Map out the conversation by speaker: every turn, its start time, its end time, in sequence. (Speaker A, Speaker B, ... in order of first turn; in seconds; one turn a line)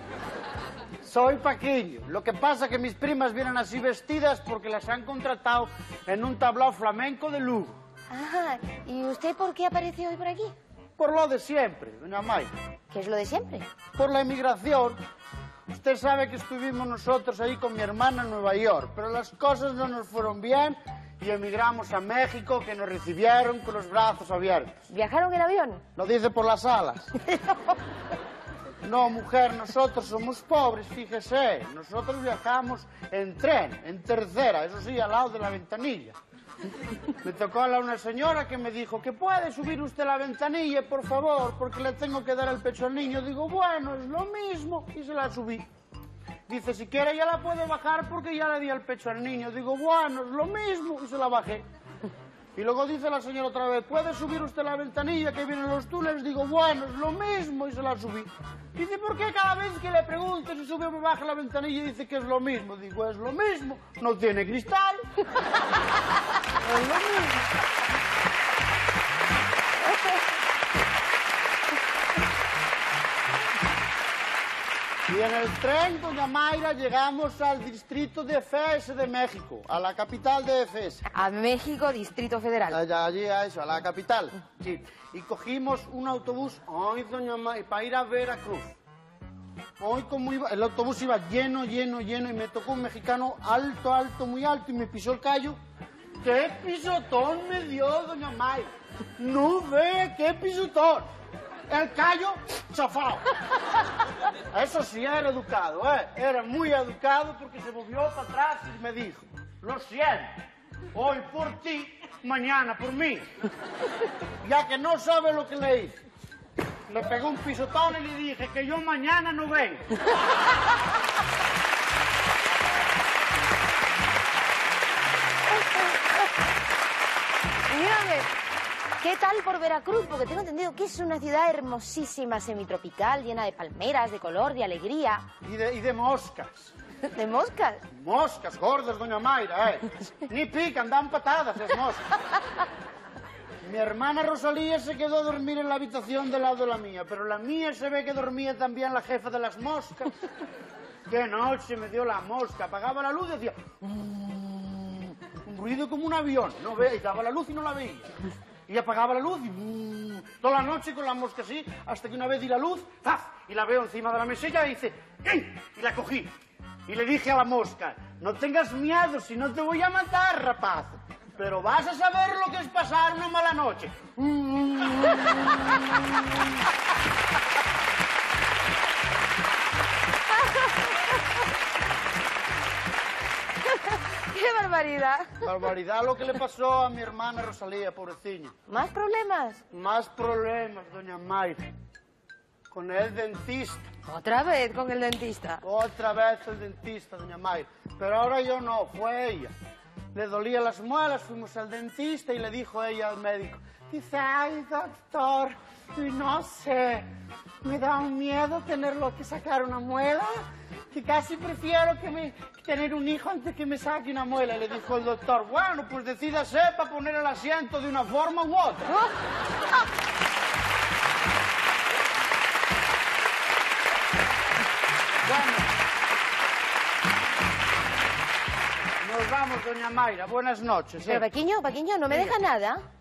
Speaker A: 1.0-7.7
Speaker B: 8.1-10.6
Speaker A: 11.0-12.5
Speaker B: 12.9-13.7
Speaker A: 13.9-15.0
Speaker A: 15.7-24.7
Speaker B: 24.9-25.8
Speaker A: 26.0-27.1
Speaker B: 27.3-27.7
Speaker A: 28.8-36.1
Speaker A: 37.2-45.7
Speaker A: 46.5-51.6
Speaker A: 52.5-65.0
Speaker A: 66.7-67.3
Speaker A: 75.1-81.0
Speaker B: 81.1-82.8
Speaker A: 82.7-88.7
Speaker A: 89.8-95.6
Speaker A: 96.2-101.1
Speaker A: 101.7-103.2
Speaker A: 104.5-110.3
Speaker A: 110.9-113.3
Speaker A: 114.4-116.0
Speaker A: 116.9-119.8
Speaker B: 125.5-126.0
Speaker B: 127.7-128.3
Speaker B: 129.0-135.3
Speaker A: 135.4-136.7
Speaker B: 137.1-137.8
Speaker A: 137.9-142.0
Speaker A: 143.6-150.1
Speaker A: 151.1-154.9
Speaker A: 155.4-158.1
Speaker A: 158.7-166.3
Speaker A: 166.9-173.9
Speaker B: 174.3-175.6
Speaker B: 183.7-185.4
Speaker A: 185.4-188.5
Speaker B: 188.7-189.6
Speaker A: 189.7-191.7
Speaker A: 192.7-193.8
Speaker B: 194.1-195.6
Speaker A: 195.6-199.5
Speaker A: 200.1-207.1
Speaker A: 207.6-218.9
Speaker A: 225.2-225.7
Speaker A: 229.0-231.2
Speaker B: 231.1-232.8